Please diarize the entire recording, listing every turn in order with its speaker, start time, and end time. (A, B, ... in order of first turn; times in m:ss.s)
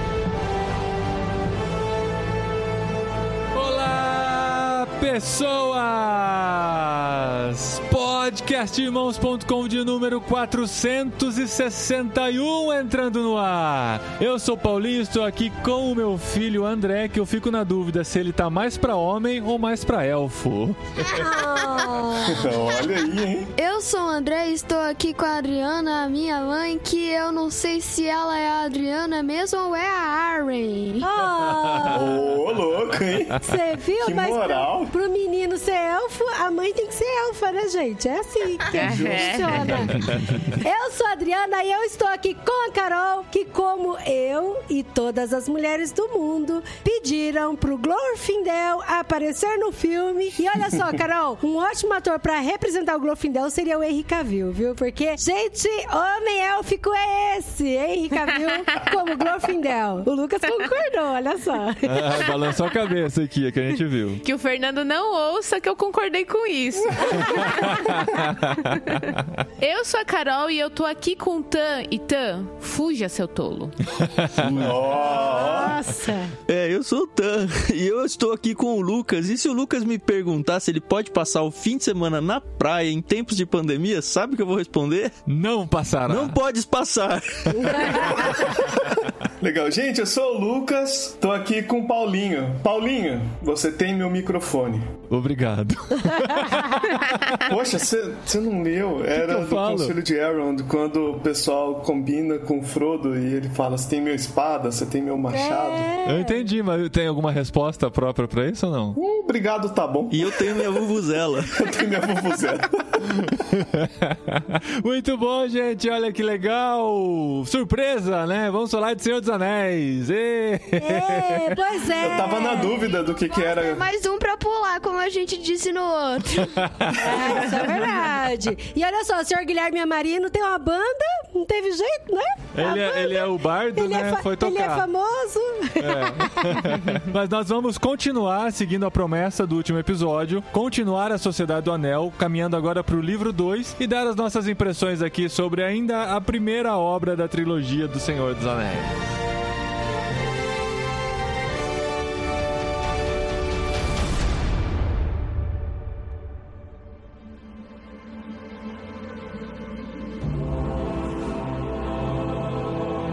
0:03.5-0:21.1 A
0:21.0-0:22.9 B
0:21.0-0:22.5 C
0:22.2-0:23.5 D
0:23.6-0:31.0 B
0:31.0-0:32.2 C
0:31.4-0:32.0 A
0:31.9-0:34.9 D
0:33.4-1:02.5 C
0:38.7-0:39.6 E
0:38.7-0:40.1 D
0:39.8-0:40.4 A
1:01.8-1:04.2 A
1:04.2-1:13.8 E
1:07.2-1:09.4 A
1:14.0-1:14.7 A
1:14.4-1:14.7 F
1:14.5-1:15.8 D
1:14.9-1:16.3 C
1:16.4-1:25.2 F
1:25.3-1:26.4 A
1:26.1-1:28.4 F
1:27.6-1:28.4 C
1:27.9-1:35.0 D
1:35.1-1:37.4 A
1:37.3-1:45.9 D
1:39.1-1:39.9 A
1:45.3-1:46.5 C
1:46.0-1:49.0 A
1:49.0-1:53.2 D
1:50.1-1:51.7 F
1:53.1-2:01.7 A
2:00.8-2:02.9 C
2:02.0-2:03.8 D
2:02.4-2:06.6 B
2:06.4-2:07.1 A
2:06.9-2:16.9 C
2:12.5-2:14.9 A
2:15.8-2:29.0 A